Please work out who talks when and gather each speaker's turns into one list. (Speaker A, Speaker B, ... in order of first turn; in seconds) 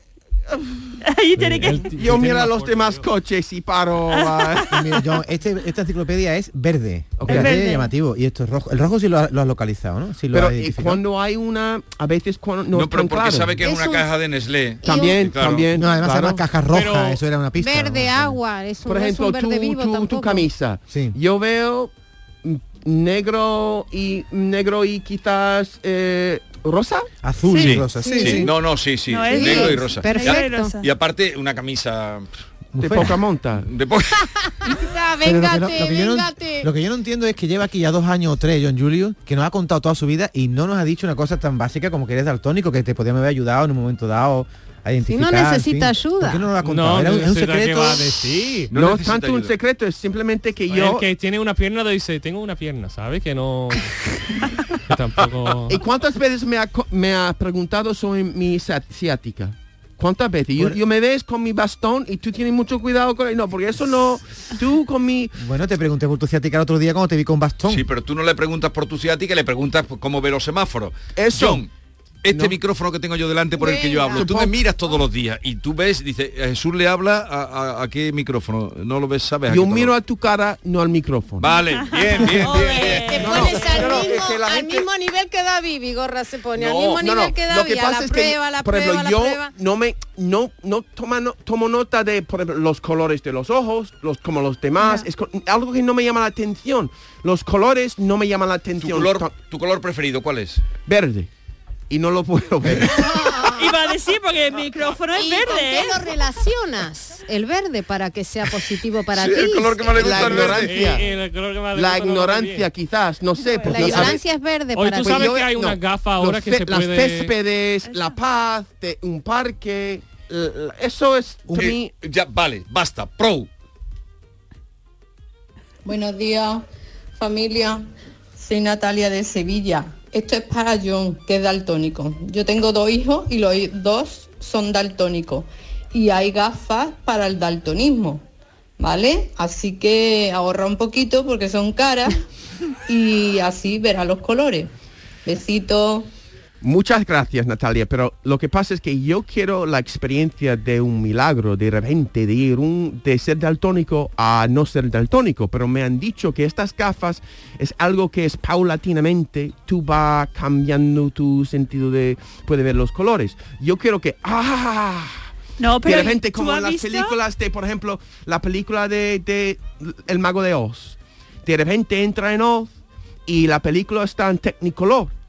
Speaker A: 0.5-0.9, 2.0-4.7, 7.2-7.6, 10.3-13.6, 14.8-16.4, 18.9-21.9, 22.4-27.1, 32.8-33.7, 48.7-51.1, 55.7-65.3, 71.2-71.7, 72.3-72.6, 74.1-74.6, 79.5-81.6, 83.2-84.9, 86.8-99.3, 100.8-101.3, 101.9-103.2, 109.9-111.1, 111.7-114.2, 115.0-121.9, 146.6-165.3, 165.8-172.7, 173.3-175.1
Speaker B: 1.0-1.9, 4.1-4.7, 7.3-7.9, 29.0-30.9, 81.6-84.0, 103.5-106.3, 113.4-114.0, 117.8-118.2, 165.6-167.2
Speaker C: 1.4-3.1, 16.7-17.2, 46.6-48.7, 50.7-54.0, 54.7-55.8, 110.3-112.7, 114.7-117.3
Speaker D: 4.7-11.0, 15.8-18.4, 20.9-21.2, 27.2-28.5, 32.7-33.2, 35.2-48.3, 65.4-67.9, 121.5-121.8
Speaker E: 12.7-15.7, 27.5-32.3, 33.6-34.7, 48.7-49.5, 67.7-71.7, 72.2-80.0, 81.4-83.7, 86.6-87.0, 98.8-100.6, 109.1-111.0, 121.6-123.5
Speaker F: 13.6-14.1, 14.8-15.2, 17.6-20.5, 27.6-28.5, 29.3-30.7, 34.6-36.7, 45.1-46.5, 73.6-74.2, 82.8-89.5, 102.9-103.9, 105.1-110.5, 113.6-115.4
Speaker G: 125.8-126.7, 127.2-138.2, 138.8-142.2, 142.9-144.7, 145.2-146.1